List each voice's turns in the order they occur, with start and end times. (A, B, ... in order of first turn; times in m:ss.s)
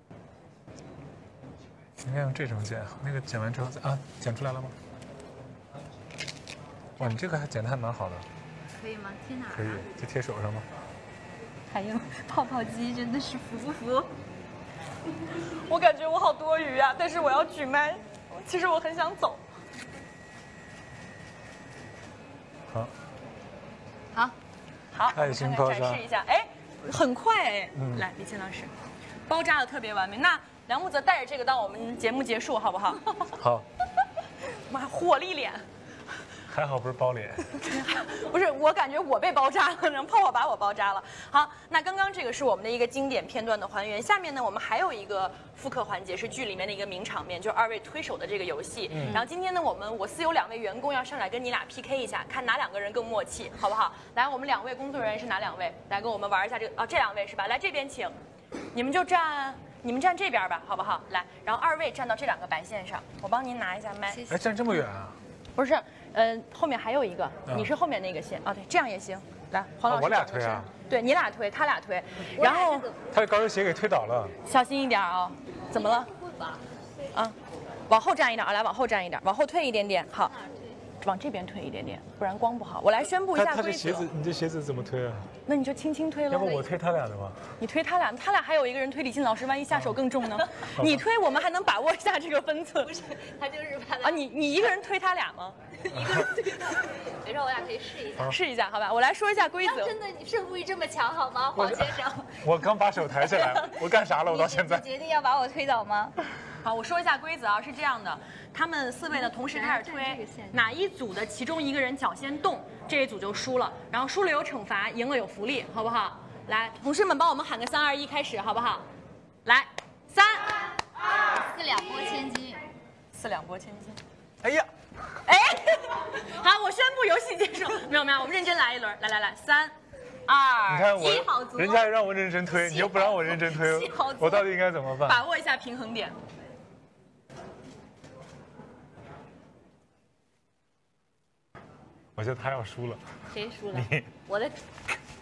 0:02.0-0:04.7 A
0:07.0-0:08.2 A
0:08.7-0:09.9 B
0:09.5-0:10.6 A
0:11.7-0:14.1 B
0:15.6-0:19.4 C
0:24.9-0:28.7 C
0:25.1-0:26.0 A
0:27.7-0:28.0 A
0:29.3-0:33.0 C
0:33.3-0:33.6 A
0:34.7-0:35.6 C
0:36.5-0:37.6 A
0:37.6-0:58.1 C
0:48.9-0:49.2 A
0:58.7-1:04.2 C
1:04.1-1:04.8 B
1:04.3-1:05.2 A
1:05.6-1:12.9 C
1:09.9-1:10.7 A
1:12.4-1:13.0 B
1:13.1-1:14.3 A
1:14.4-1:16.1 C
1:15.7-1:16.6 B
1:17.9-1:20.3 C
1:20.2-1:20.8 B
1:21.0-1:24.1 C
1:23.3-1:25.3 A
1:25.4-1:26.7 C
1:26.3-1:27.4 A
1:27.6-1:32.9 C
1:30.8-1:31.0 A
1:32.8-1:34.2 B
1:34.0-1:35.6 C
1:35.8-1:38.4 B
1:35.9-1:36.3 A
1:38.2-1:39.9 C
1:39.6-1:42.5 B
1:41.5-1:44.8 A
1:43.2-1:46.2 B
1:46.6-1:58.8 C
1:49.1-1:50.7 B
1:59.4-2:00.6 C
2:01.4-2:02.6 B
2:03.1-2:04.0 C
2:04.4-2:04.7 A
2:05.2-2:09.7 C
2:10.3-2:11.3 C
2:10.7-2:15.2 A
2:10.9-2:11.8 B
2:12.5-2:14.5 B
2:15.0-2:16.2 C
2:22.2-2:23.0 A
2:23.3-2:24.7 B
2:23.7-2:24.1 A